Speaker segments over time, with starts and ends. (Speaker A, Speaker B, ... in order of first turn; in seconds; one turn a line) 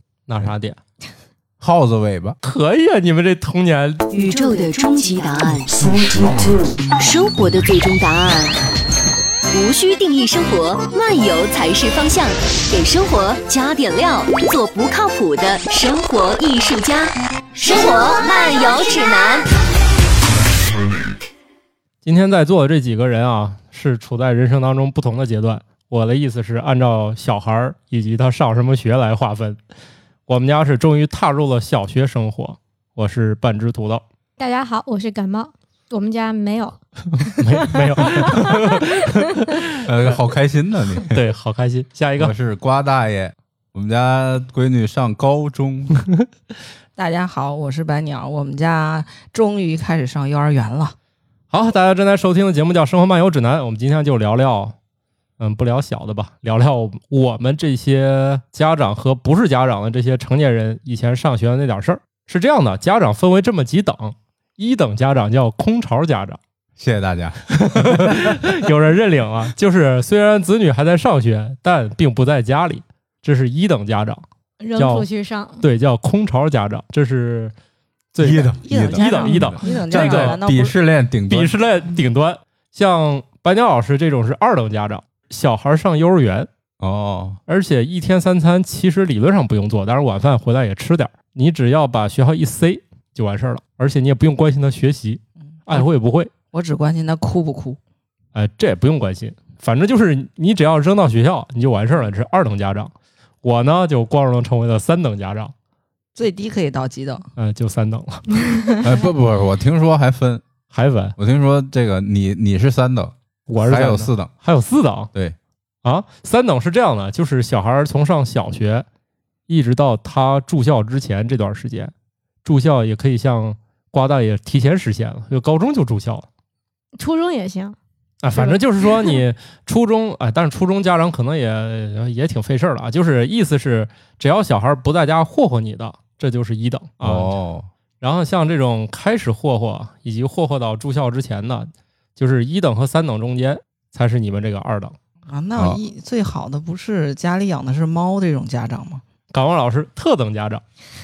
Speaker A: 0.3-0.8
Speaker B: 1.6-2.4
Speaker A: 2.4-4.1
Speaker C: 4.1-6.3
Speaker C: 7.0-8.6
Speaker C: 9.5-19.5
Speaker A: 22.1-29.6
Speaker A: 30.3-34.0
Speaker D: 34.4-39.2
Speaker A: 37.2-39.7
Speaker B: 39.8-41.2
Speaker A: 41.0-42.3
Speaker B: 42.2-45.9
Speaker E: 47.0-51.0
Speaker A: 51.5-54.8
Speaker A: 55.4-66.4
Speaker B: 66.8-68.3
Speaker A: 67.5-74.2
Speaker D: 74.6-75.6
Speaker A: 74.8-75.1
Speaker A: 75.6-77.5
Speaker A: 78.1-80.4
Speaker B: 78.2-81.5
Speaker E: 78.3-80.8
Speaker A: 81.3-86.5
Speaker B: 86.8-87.4
Speaker A: 87.5-96.3
Speaker E: 96.5-97.8
Speaker A: 98.3-105.5
Speaker E: 106.2-107.3
Speaker A: 107.4-108.5
Speaker B: 108.8-110.4
Speaker A: 110.7-111.2
Speaker B: 111.2-114.3
Speaker A: 113.5-115.1
Speaker A: 115.8-118.9
Speaker A: 119.5-121.9
Speaker A: 122.4-126.3
Speaker D: 127.0-127.8
Speaker A: 128.2-137.3
Speaker D: 128.3-129.2
Speaker B: 137.0-137.7
Speaker A: 138.0-144.9
Speaker E: 145.3-149.0
Speaker A: 149.3-150.6